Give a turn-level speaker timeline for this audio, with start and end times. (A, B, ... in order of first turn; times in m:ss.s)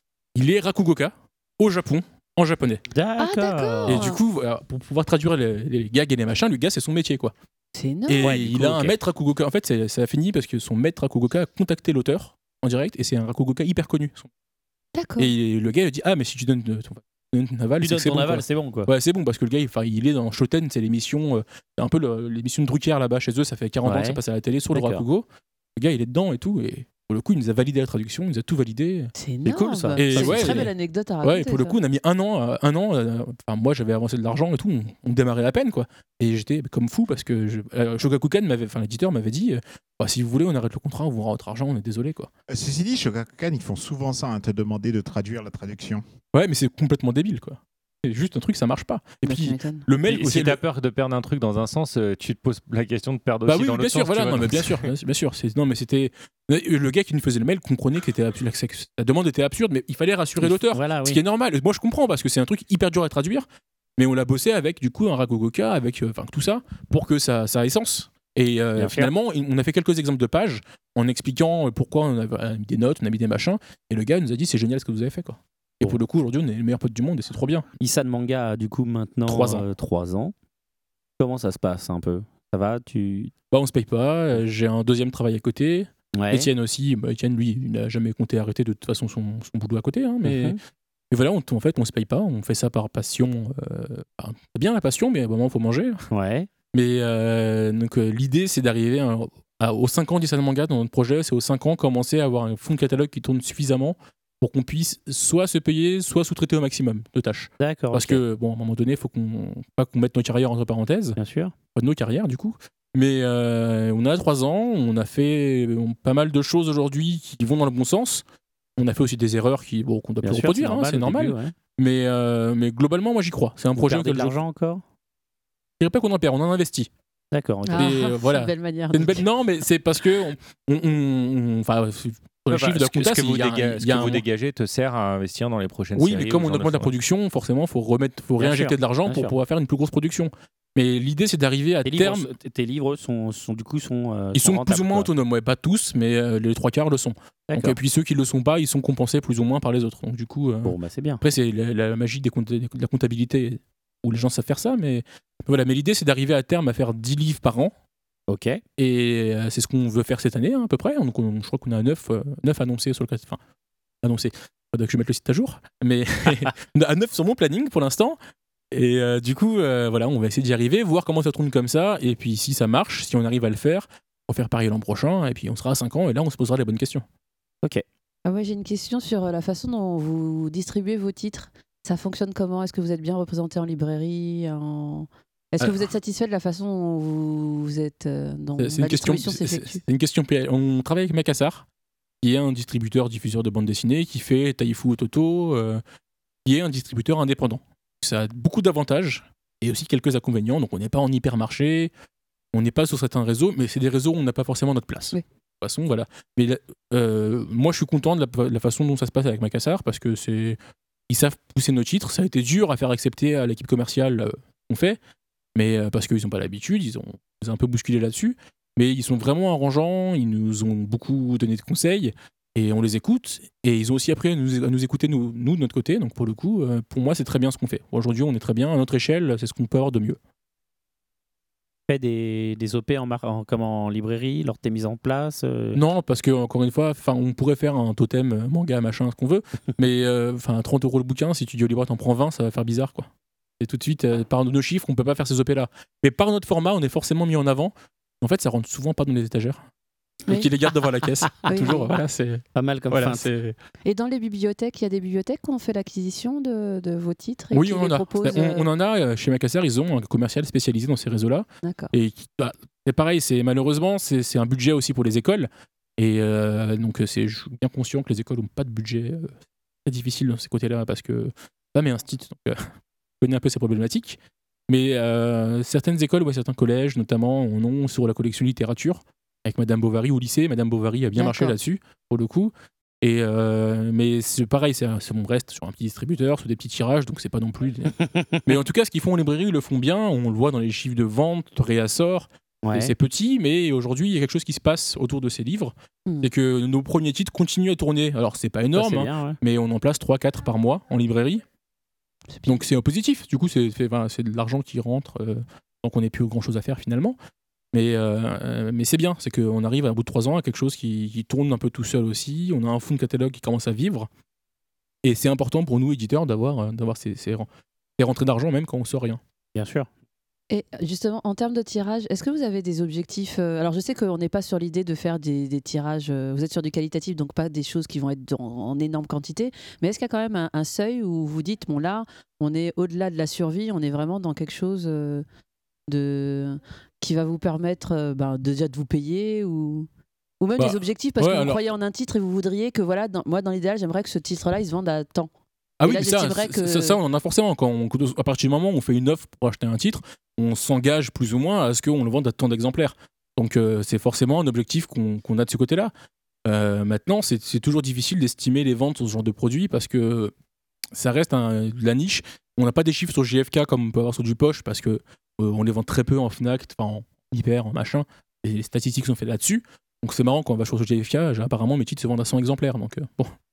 0:00.4-0:02.8 A
0:02.9-0:04.1 B
0:03.2-0:04.2 C
0:03.9-0:07.3 A
0:07.8-0:08.4 C
0:08.1-0:14.3 A
0:08.2-0:09.0 B
0:14.9-0:15.4 C
0:15.2-0:29.1 A
0:17.8-0:18.9 B
0:23.8-0:24.2 B
0:24.7-0:25.0 B
0:29.2-0:31.8 C
0:29.4-0:30.7 B
0:30.0-0:42.3 A
0:42.5-0:46.0 D
0:46.3-0:50.6 A
0:49.2-0:49.9 C
0:50.1-0:54.9 E
0:53.4-1:03.5 A
1:00.4-1:01.2 B
1:04.0-1:17.6 A
1:08.8-1:09.1 B
1:17.8-1:20.3 B
1:19.3-1:19.6 A
1:21.2-1:23.3 B
1:23.5-1:30.6 A
1:26.2-1:26.5 B
1:30.2-1:30.6 B
1:31.1-1:36.0 A
1:36.1-1:36.5 B
1:36.7-1:51.2 A
1:47.6-1:48.2 B
1:51.2-1:51.5 B
1:51.8-1:58.2 A
1:58.8-2:04.4 A
2:00.2-2:01.5 B
2:03.8-2:04.8 B
2:05.8-2:06.9 A
2:07.3-2:08.0 B
2:07.7-2:09.3 C
2:07.8-2:14.2 A
2:12.5-2:16.9 E
2:16.0-2:22.3 A
2:18.4-2:19.3 B
2:21.8-2:25.1 B
2:24.4-2:37.7 A
2:27.5-2:27.8 B
2:30.6-2:31.2 B
2:38.3-2:38.6 B
2:38.8-2:43.4 A
2:44.0-2:48.2 A
2:48.7-2:57.0 A
2:58.3-3:09.8 C
3:08.6-3:11.6 A
3:12.2-3:15.8 A
3:16.4-3:21.9 A
3:22.5-3:30.6 A
3:31.1-3:35.0 A
3:35.6-3:50.2 A
3:51.9-3:55.8 B
3:55.7-4:03.1 A
4:03.6-4:09.6 A
4:10.3-4:13.6 A
4:11.4-4:12.0 C
4:12.6-4:13.3 B
4:13.8-4:18.7 C
4:17.5-4:29.3 A
4:21.6-4:21.9 C
4:29.8-4:32.7 A
4:33.2-4:34.2 A
4:34.7-5:01.4 A
4:41.2-4:41.6 C
4:52.6-4:52.9 B
4:56.1-4:56.3 C
4:58.8-4:59.4 B
5:02.4-5:02.6 C
5:02.5-5:07.2 A
5:07.7-5:14.1 A
5:15.0-5:17.5 A
5:18.0-5:19.2 A
5:19.6-5:19.9 B
5:20.5-5:35.2 C
5:35.9-5:39.9 C
5:40.4-5:45.3 C
5:40.6-5:41.6 A
5:45.8-5:55.9 A
5:45.8-5:47.0 C
5:56.5-6:00.3 A
6:00.9-6:13.3 A